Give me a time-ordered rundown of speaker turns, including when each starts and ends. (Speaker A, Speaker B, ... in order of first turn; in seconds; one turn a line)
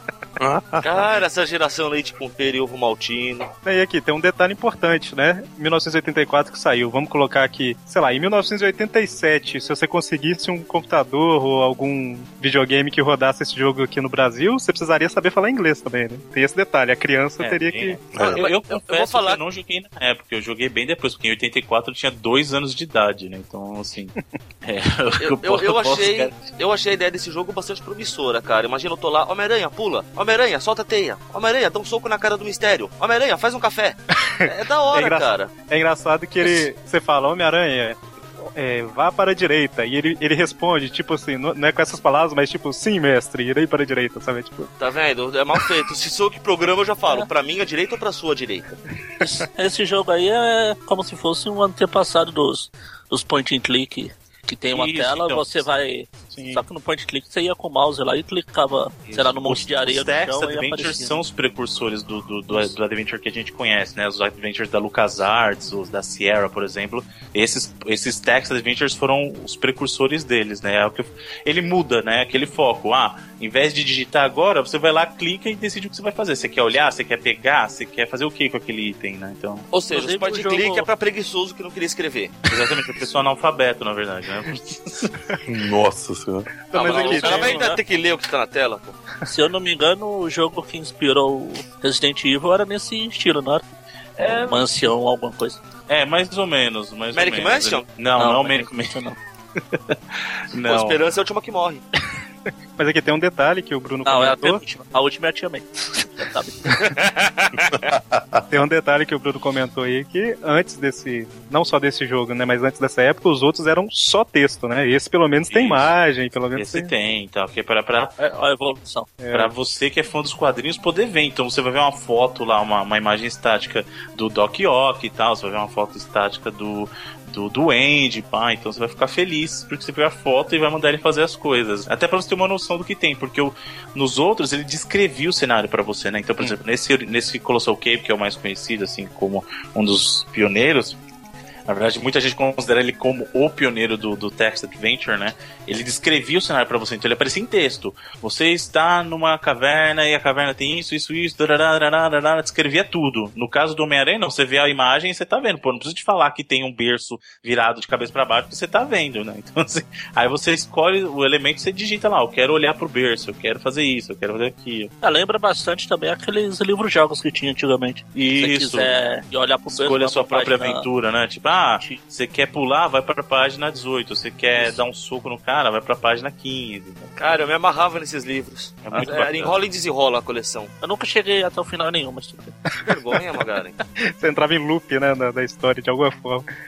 Speaker A: 0.4-1.1
Speaker B: 0.8-3.5
Speaker C: 3.6-18.0
Speaker D: 17.4-26.4
Speaker A: 18.1-18.4
Speaker B: 18.2-19.4
Speaker B: 25.2-35.5
Speaker C: 34.2-44.7
Speaker B: 44.8-48.8
Speaker E: 49.2-61.2
Speaker D: 54.7-55.7
Speaker D: 56.3-56.6
Speaker D: 59.1-79.7
Speaker B: 79.7-82.4
Speaker E: 79.9-80.9
Speaker D: 82.5-85.1
Speaker A: 85.4-86.5
Speaker C: 86.7-87.7
Speaker E: 86.8-87.8
Speaker B: 86.8-89.0
Speaker E: 89.2-93.6
Speaker E: 94.2-95.6
Speaker B: 94.2-94.5
Speaker D: 95.9-99.1
Speaker B: 97.1-97.8
Speaker E: 98.2-99.2
Speaker D: 99.7-101.0
Speaker B: 100.6-101.8
Speaker C: 102.8-104.6
Speaker E: 104.0-106.8
Speaker A: 107.9-108.4
Speaker C: 108.5-116.9
Speaker D: 115.5-115.9
Speaker D: 116.5-118.2
Speaker E: 118.2-119.2
Speaker C: 119.2-119.5
Speaker D: 119.3-141.0
Speaker D: 141.7-164.9
Speaker E: 165.0-170.8
Speaker D: 168.1-168.9
Speaker D: 169.7-177.4
Speaker B: 177.2-180.7
Speaker D: 178.8-179.5
Speaker E: 180.8-182.6
Speaker B: 182.8-183.8
Speaker C: 184.0-186.4